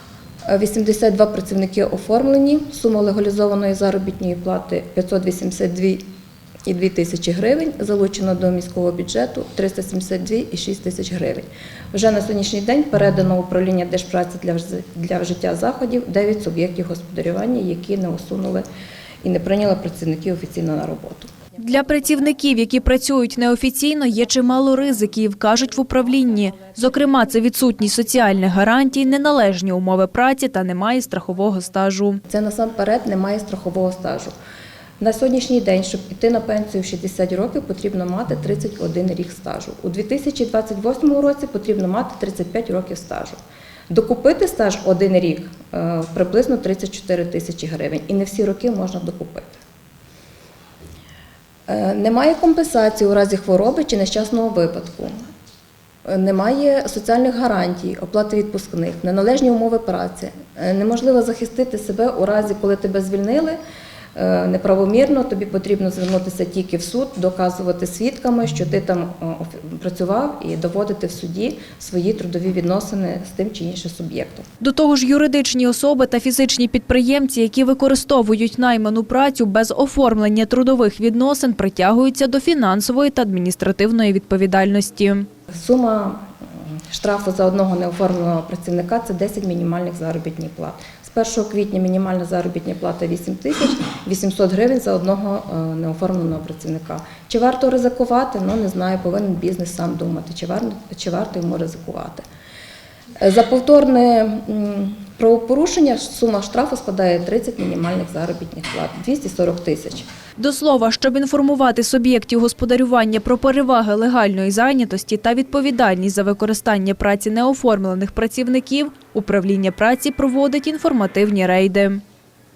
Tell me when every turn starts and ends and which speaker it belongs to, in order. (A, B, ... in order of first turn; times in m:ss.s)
0:00.5-0:06.0 A
0:06.7-0:18.6 A
0:19.2-0:21.3 A
0:21.6-0:32.2 B
0:32.3-0:34.3 A
0:35.0-0:43.4 A
0:43.9-0:49.6 A
0:51.7-0:55.2 A
0:56.0-1:03.6 A
1:04.2-1:14.5 A
1:14.6-1:25.3 B
1:25.5-1:42.2 A
1:43.2-1:50.1 A
1:50.4-2:02.0 B